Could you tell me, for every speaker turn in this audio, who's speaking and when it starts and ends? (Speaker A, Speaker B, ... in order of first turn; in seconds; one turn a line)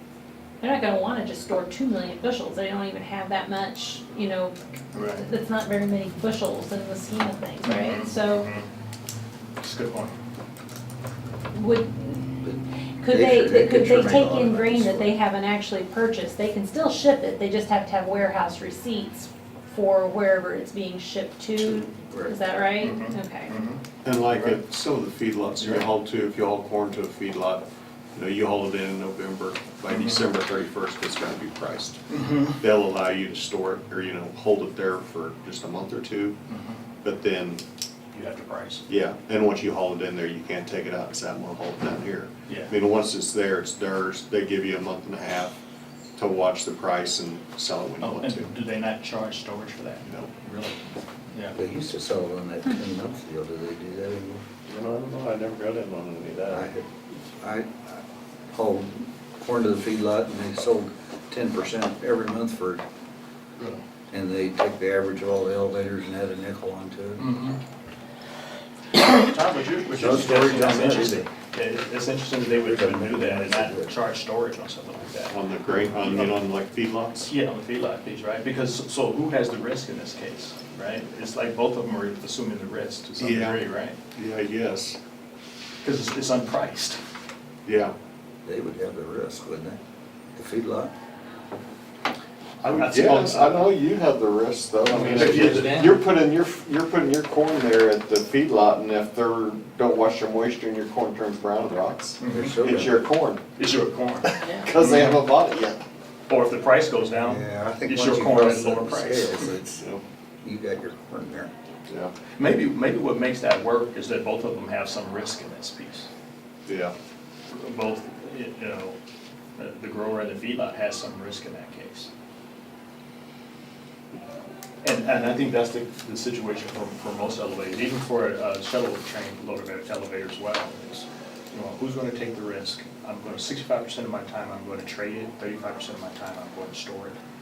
Speaker A: 0.6-8.5
Speaker B: 4.9-5.2
Speaker B: 7.6-8.7
Speaker B: 9.6-10.2
Speaker A: 11.5-12.3
Speaker C: 12.4-15.1
Speaker A: 13.0-23.5
Speaker C: 21.6-22.4
Speaker B: 22.8-24.6
Speaker D: 24.1-32.0
Speaker B: 29.9-30.3
Speaker B: 32.1-32.6
Speaker D: 32.6-36.4
Speaker B: 36.5-36.8
Speaker D: 37.0-37.6
Speaker B: 38.1-38.9
Speaker D: 38.9-45.6
Speaker B: 42.5-42.8
Speaker D: 46.2-48.5
Speaker B: 48.0-51.6
Speaker C: 51.5-54.4
Speaker D: 54.7-56.7
Speaker C: 56.5-62.9
Speaker B: 63.6-63.8
Speaker C: 64.1-67.3
Speaker B: 67.2-67.6
Speaker B: 68.9-76.3
Speaker C: 69.9-71.3
Speaker C: 72.6-73.9
Speaker D: 75.3-77.3
Speaker B: 77.3-84.0
Speaker D: 83.2-83.6
Speaker D: 84.1-85.0
Speaker B: 85.8-87.0
Speaker D: 87.7-87.9
Speaker C: 88.5-89.8
Speaker C: 90.3-90.9
Speaker B: 92.6-93.7
Speaker D: 92.7-103.4
Speaker B: 94.9-96.0
Speaker B: 102.2-102.5
Speaker C: 102.3-103.0
Speaker B: 103.6-105.2
Speaker A: 104.4-104.7
Speaker D: 104.6-105.8
Speaker B: 106.3-109.5
Speaker C: 107.2-109.9
Speaker C: 110.4-111.5
Speaker D: 111.9-112.1
Speaker B: 112.4-116.1
Speaker D: 116.7-116.9
Speaker B: 117.5-119.0
Speaker B: 119.6-122.1
Speaker B: 124.8-137.2